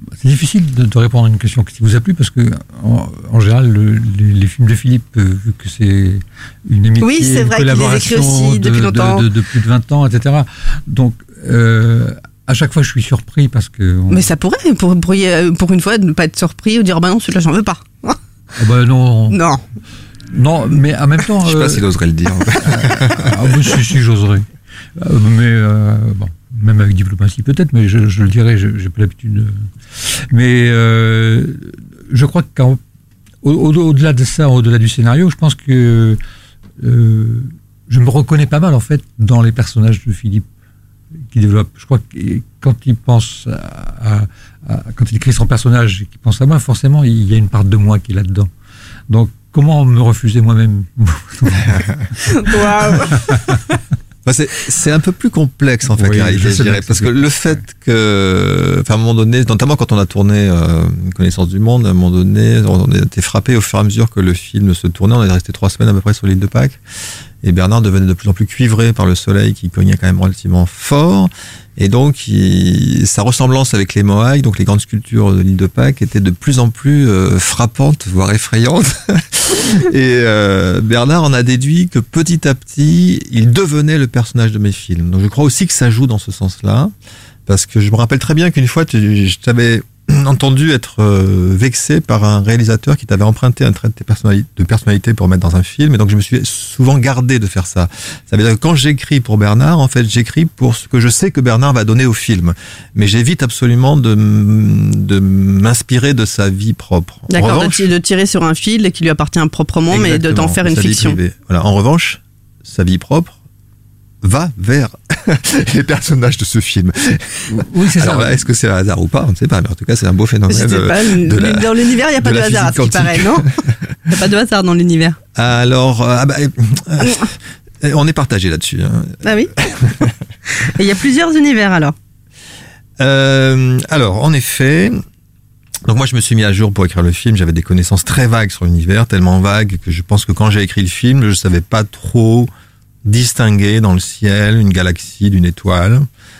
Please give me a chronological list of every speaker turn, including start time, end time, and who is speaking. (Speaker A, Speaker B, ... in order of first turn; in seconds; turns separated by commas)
Speaker A: 0.2-14.3, Speaker B: 7.0-9.3, Speaker B: 14.1-18.2, Speaker A: 18.6-19.4, Speaker B: 19.3-19.6, Speaker A: 20.3-21.9, Speaker C: 21.4-23.3, Speaker A: 22.5-24.4, Speaker A: 25.0-32.8, Speaker A: 33.4-36.2, Speaker A: 36.8-40.5, Speaker A: 41.3-48.5, Speaker A: 49.1-52.7, Speaker B: 52.3-53.8, Speaker C: 54.2-66.8, Speaker A: 55.9-57.6, Speaker C: 67.4-86.9, Speaker C: 87.5-107.9, Speaker B: 107.3-111.2, Speaker C: 109.9-113.3, Speaker C: 114.2-123.8, Speaker A: 117.5-118.4, Speaker B: 120.5-123.5, Speaker B: 124.1-125.2, Speaker C: 125.4-130.1, Speaker B: 129.2-131.9, Speaker C: 133.0-135.0, Speaker C: 135.9-142.5, Speaker C: 143.1-146.1